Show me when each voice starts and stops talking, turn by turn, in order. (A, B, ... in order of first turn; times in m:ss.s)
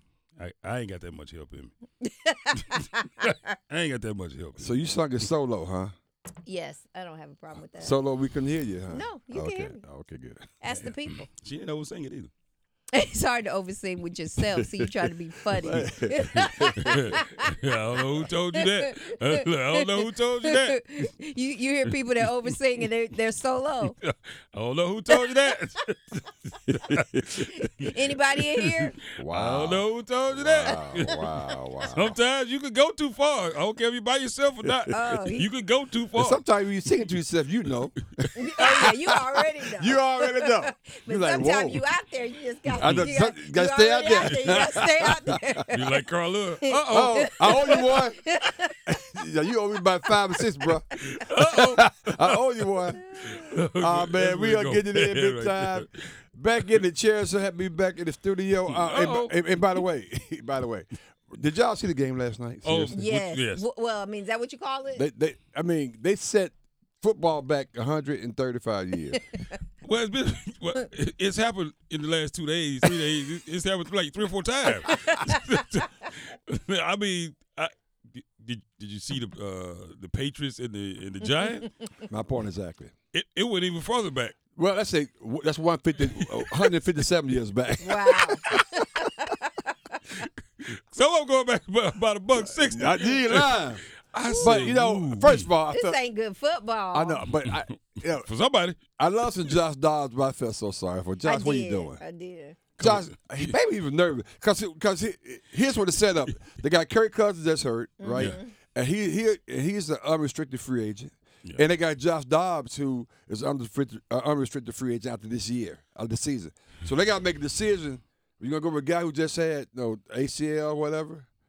0:00.4-0:01.7 A
0:02.0-0:03.3 B
0:02.7-0:04.7 A
0:04.6-0:05.9 C
0:06.4-0:08.0 B
0:07.8-0:10.5 C
0:08.9-0:09.8 B
0:10.6-0:11.2 B
0:10.6-0:12.3 A
0:12.9-0:17.5 B
0:14.6-0:17.2 C
0:16.8-0:20.8 A
0:18.5-0:24.0 B
0:24.0-0:31.2 A
0:26.7-0:27.4 C
0:27.8-0:29.0 B
0:29.1-0:32.2 C
0:31.1-0:31.9 B
0:31.9-0:36.4 A
0:34.9-0:35.5 B
0:36.2-0:38.9 C
0:38.4-0:45.8 B
0:39.7-0:41.8 C
0:42.7-0:43.1 A
0:42.7-0:45.6 C
0:44.2-0:44.9 A
0:45.7-0:47.8 A
0:46.6-0:48.8 B
0:46.9-0:48.3 C
0:48.8-1:03.0 C
0:51.0-0:52.4 A
0:53.2-0:53.5 B
0:53.3-0:56.1 A
0:58.7-0:59.8 A
1:02.6-1:03.6 A
1:02.9-1:05.0 B
1:04.9-1:09.2 C
1:09.8-1:21.7 A
1:22.1-1:22.9 C
1:23.1-1:24.4 A
1:24.6-1:28.2 C
1:26.2-1:26.7 A
1:27.8-1:29.7 B
1:30.1-1:33.6 A
1:32.4-1:33.8 C
1:34.1-1:35.5 A
1:34.2-1:34.7 B
1:34.4-1:36.0 C
1:35.7-1:37.2 B
1:36.9-1:38.3 C
1:37.4-1:38.9 A
1:39.0-1:42.0 C
1:41.2-1:42.6 B
1:42.8-1:43.5 A
1:42.8-2:01.3 C
1:48.0-1:48.5 B